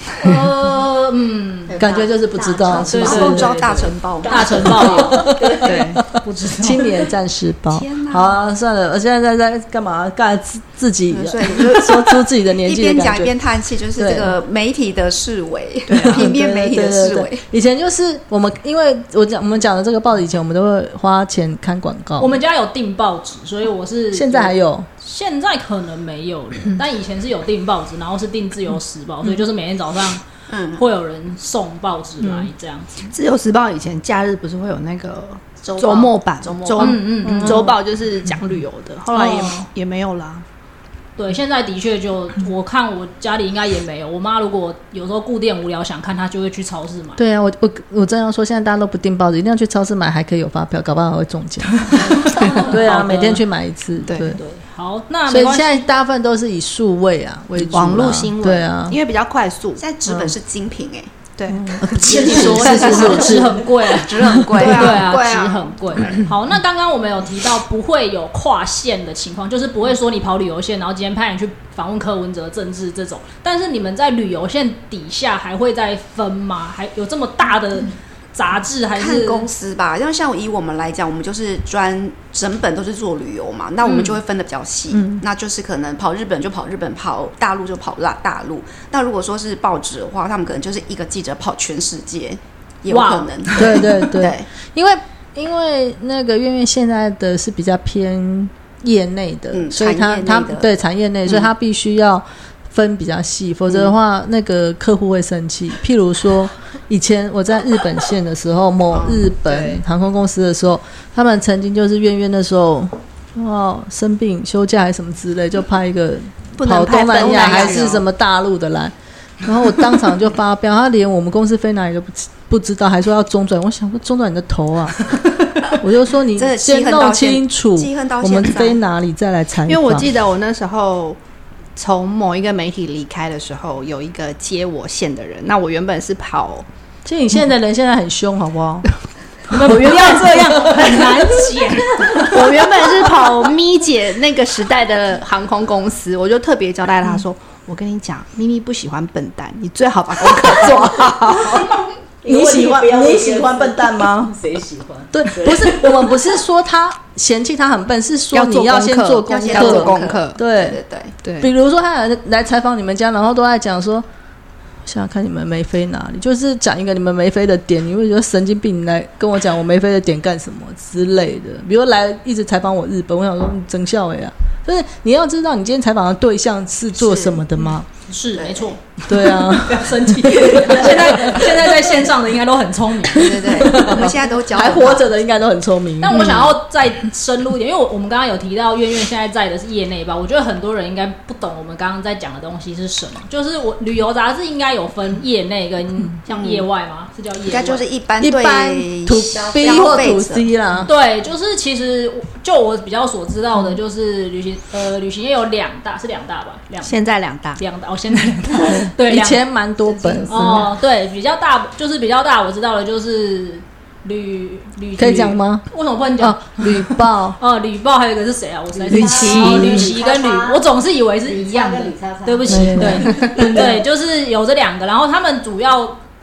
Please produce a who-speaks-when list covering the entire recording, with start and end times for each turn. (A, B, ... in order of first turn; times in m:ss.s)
0:00.1-0:00.4 A
0:00.2-0:01.8 B
0:01.8-0:03.6 C
0:01.8-0:02.9 D
0:02.6-0:05.2 E
0:02.8-0:07.1 B
0:04.3-0:05.9 D
0:04.8-0:13.3 C
0:05.6-0:06.0 A
0:07.7-0:08.5 E
0:11.1-0:17.4 E
0:14.0-0:14.3 C
0:15.9-0:16.3 A
0:15.9-0:22.4 C
0:22.2-0:30.2 B
0:24.1-0:24.9 C
0:30.5-0:30.8 E
0:30.7-0:32.9 B
0:32.2-0:32.5 C
0:33.1-0:40.4 A
0:35.6-0:37.0 E
0:36.8-0:37.7 B
0:37.4-0:37.7 C
0:39.1-0:39.7 B
0:41.2-0:47.2 B
0:47.2-0:54.4 C
0:52.0-0:53.4 B
0:54.1-0:54.4 A
0:54.2-0:55.8 B
0:55.3-0:59.0 C
0:57.6-0:59.8 A
0:59.8-1:01.1 E
1:00.0-1:00.4 C
1:01.4-1:03.2 A
1:01.5-1:03.6 C
1:01.9-1:05.5 E
1:01.9-1:19.4 B
1:04.5-1:06.2 A
1:18.9-1:34.5 E
1:23.8-1:24.2 B
1:24.9-1:25.2 C
1:32.9-1:34.0 B
1:33.6-2:10.1 C
1:39.5-1:40.7 E
1:48.9-1:49.2 E
1:49.4-1:49.8 A
1:56.6-1:58.0 A
1:56.7-1:58.0 E
2:06.3-2:08.8 E
2:09.7-2:11.2 A
2:11.8-2:16.6 A
2:17.0-2:18.9 C
2:19.5-2:22.4 B
2:19.5-2:21.3 C
2:22.1-2:31.8 A
2:32.2-2:36.2 D
2:32.2-2:34.3 C
2:35.1-2:40.8 C
2:38.3-2:40.4 A
2:39.3-2:41.1 E
2:41.2-2:41.5 A
2:41.4-2:44.0 C
2:44.8-2:57.9 C
2:57.0-2:57.4 E
2:58.1-3:03.8 B
2:58.3-2:58.8 E
2:59.1-3:01.9 C
3:03.1-3:05.1 E
3:03.2-3:06.5 C
3:06.0-3:17.8 B
3:06.1-3:06.4 E
3:16.3-3:16.7 E
3:17.4-3:20.5 E
3:18.2-3:20.9 C
3:19.6-3:20.0 D
3:20.8-3:27.0 B
3:26.8-3:27.6 A
3:27.6-3:29.4 B
3:28.6-3:30.7 C
3:30.3-3:46.0 B
3:35.0-3:35.6 C
3:36.2-3:37.4 C
3:38.8-3:40.6 D
3:38.9-3:39.9 C
3:39.1-3:39.8 E
3:39.2-3:39.6 A
3:41.2-3:43.6 D
3:42.4-3:43.7 C